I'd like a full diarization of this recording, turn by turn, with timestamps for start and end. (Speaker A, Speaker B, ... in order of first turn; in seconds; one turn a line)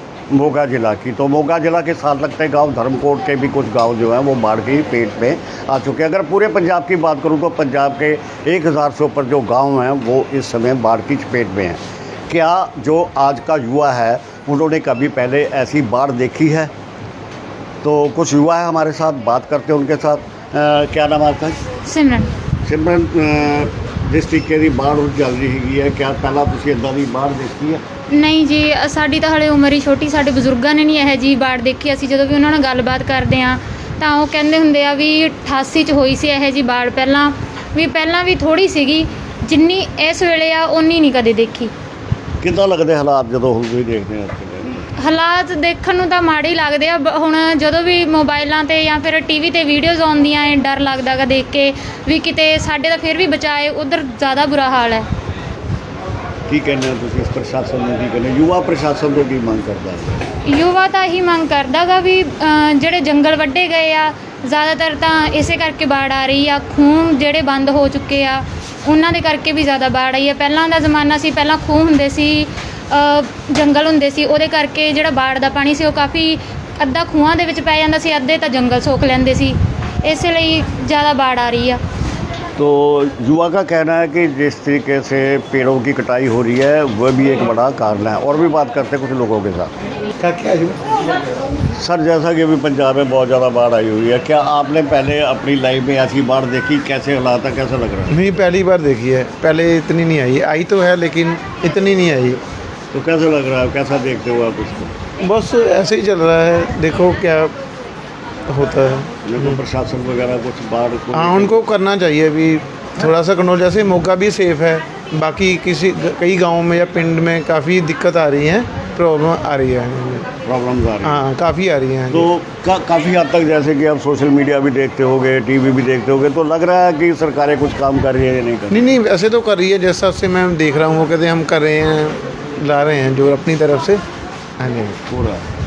Speaker A: 0.3-16.7
Speaker A: 17.8-21.6
Speaker B: 21.9-22.3
Speaker A: 22.7-27.8
Speaker B: 28.1-41.7
Speaker A: 42.4-44.9
Speaker B: 45.0-55.1
Speaker A: 56.5-60.2
Speaker B: 60.5-81.8
Speaker A: 82.6-89.7
Speaker C: 90.2-90.8
Speaker A: 91.8-98.2
Speaker C: 98.1-102.4
Speaker A: 102.9-105.0
Speaker C: 105.2-107.5
Speaker C: 108.5-109.6
Speaker A: 109.2-111.6
Speaker C: 111.1-120.3
Speaker A: 120.5-121.2
Speaker C: 121.0-122.3
Speaker A: 122.1-128.9
Speaker C: 128.7-134.0
Speaker C: 134.6-135.0
Speaker A: 135.1-135.4